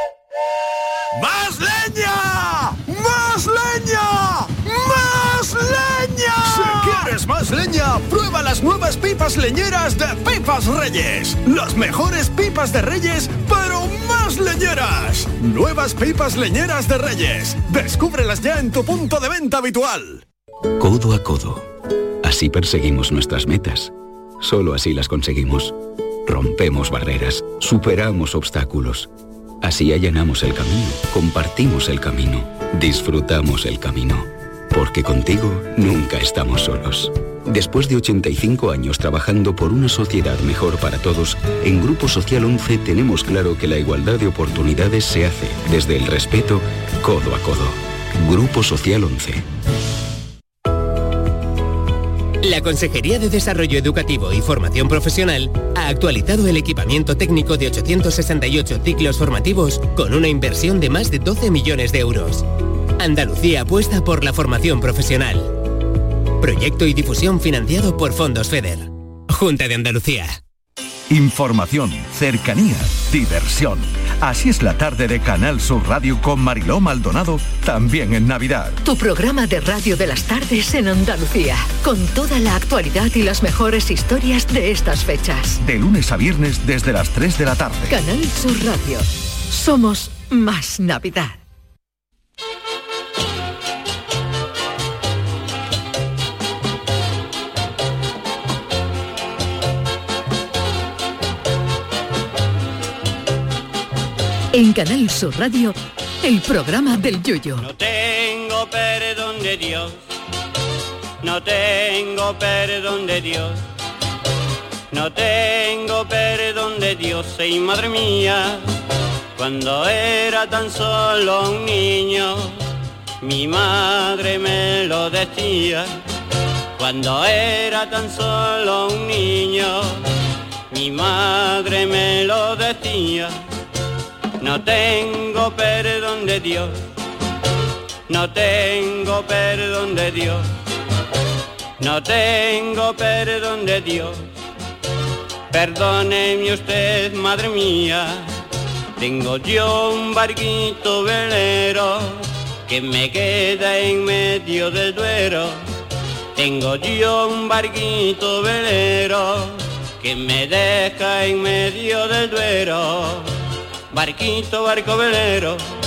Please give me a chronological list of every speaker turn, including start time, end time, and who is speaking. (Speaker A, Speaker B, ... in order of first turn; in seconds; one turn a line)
Speaker A: 1.1-20.2
Speaker B: 20.8-21.7
Speaker B: 22.2-29.1
Speaker B: 29.6-49.4
Speaker C: 52.4-62.5
Speaker C: 63.0-65.5
Speaker C: 66.4-70.4
Speaker D: 71.1-78.8
Speaker E: 78.8-85.6
Speaker D: 85.6-88.0
Speaker E: 87.9-91.4
Speaker E: 104.5-107.7
Speaker F: 107.6-110.0
Speaker F: 111.2-113.6
Speaker F: 114.9-118.6
Speaker F: 119.3-122.6
Speaker F: 123.2-125.9
Speaker F: 126.8-130.0
Speaker F: 130.7-133.4
Speaker F: 134.4-136.8
Speaker F: 138.1-140.5
Speaker F: 141.8-144.3
Speaker F: 145.5-148.3
Speaker F: 149.0-155.6
Speaker F: 156.3-163.3
Speaker F: 163.9-165.6